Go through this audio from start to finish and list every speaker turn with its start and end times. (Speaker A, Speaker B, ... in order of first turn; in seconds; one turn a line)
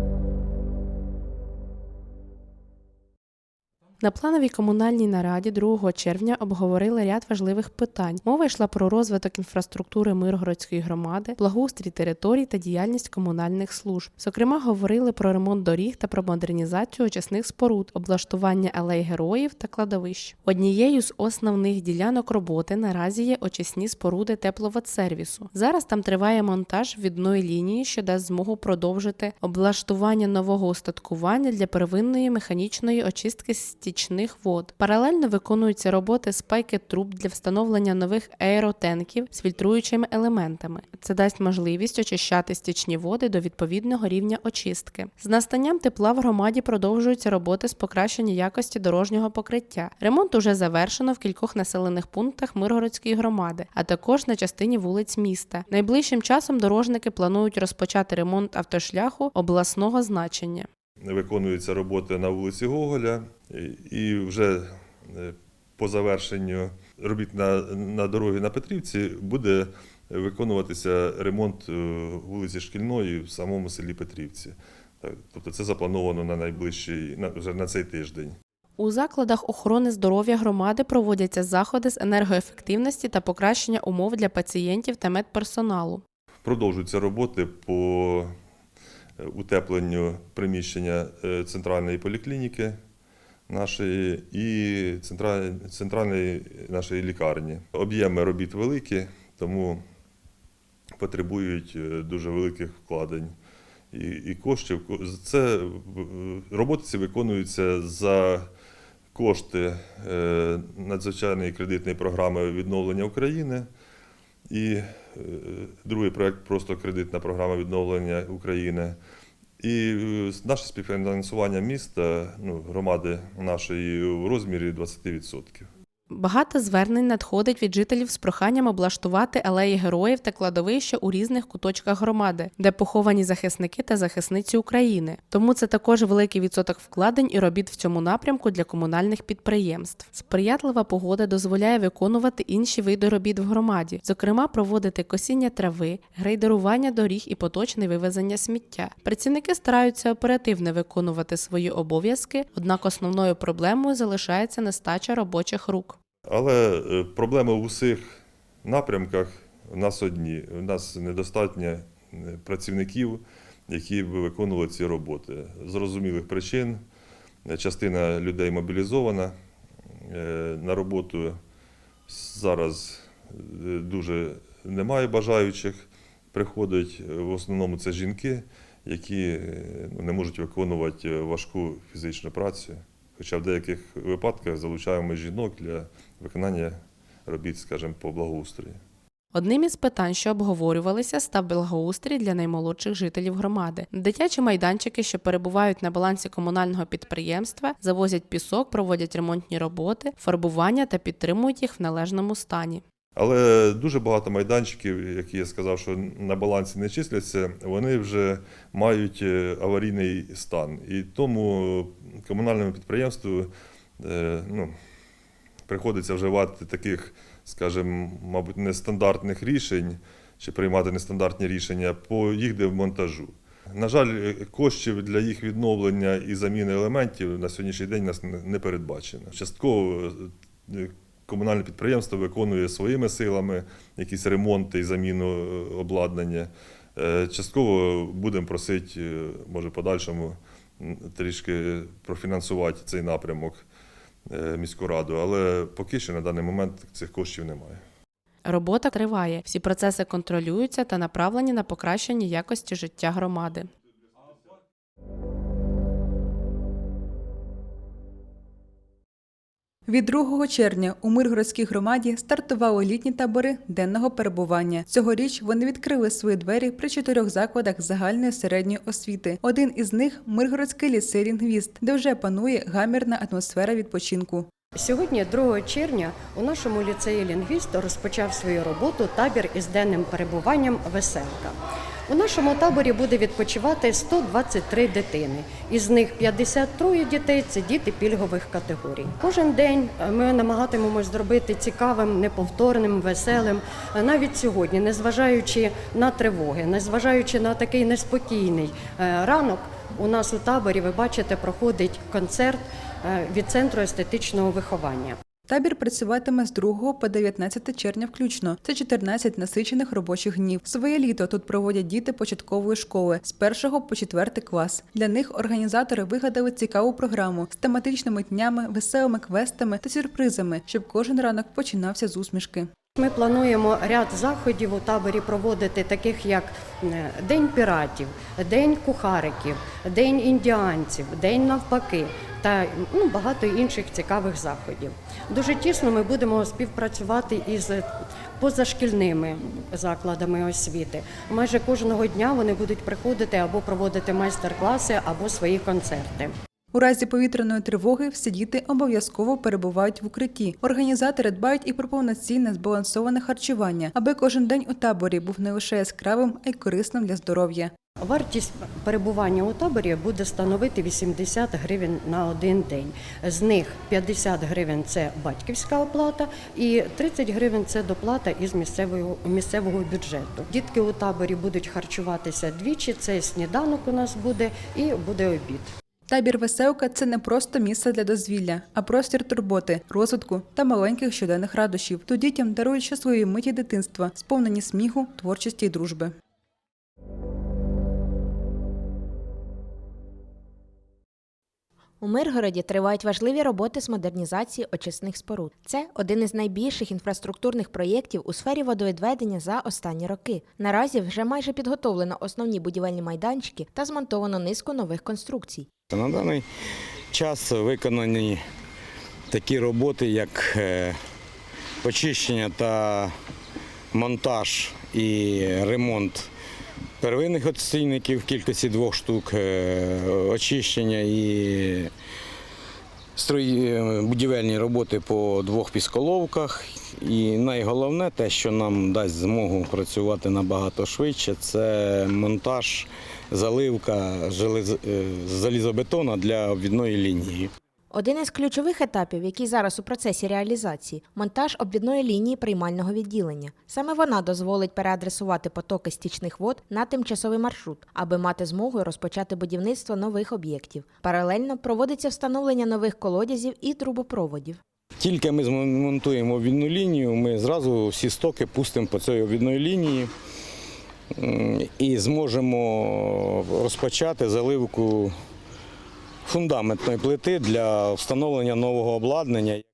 Speaker A: 4.0-60.7
Speaker B: 61.0-78.4
Speaker A: 78.8-86.0
Speaker B: 86.5-88.3
Speaker B: 89.2-92.8
Speaker B: 93.5-99.8
Speaker B: 101.0-103.3
Speaker B: 103.9-108.5
Speaker B: 109.2-113.7
Speaker B: 114.5-119.0
Speaker B: 119.6-125.7
Speaker A: 126.1-156.0
Speaker B: 156.3-158.0
Speaker B: 158.6-166.8
Speaker B: 167.5-169.3
Speaker B: 170.1-171.4
Speaker B: 172.1-188.8
Speaker A: 189.3-202.8
Speaker B: 203.2-214.7
Speaker B: 215.7-243.7
Speaker B: 244.3-247.8
Speaker A: 248.4-253.7
Speaker C: 259.9-274.5
Speaker D: 274.7-305.2
Speaker C: 305.5-322.7
Speaker D: 322.9-337.9
Speaker D: 338.4-346.3
Speaker C: 346.7-357.7
Speaker D: 358.0-375.7
Speaker C: 376.1-386.1
Speaker E: 392.0-405.7
Speaker F: 405.9-406.4
Speaker F: 407.1-408.4
Speaker F: 409.3-411.0
Speaker F: 411.8-413.1
Speaker F: 413.9-416.3
Speaker F: 417.0-421.9
Speaker F: 423.2-437.5
Speaker E: 437.9-454.6
Speaker F: 455.0-460.1
Speaker F: 461.2-465.1
Speaker F: 466.3-469.6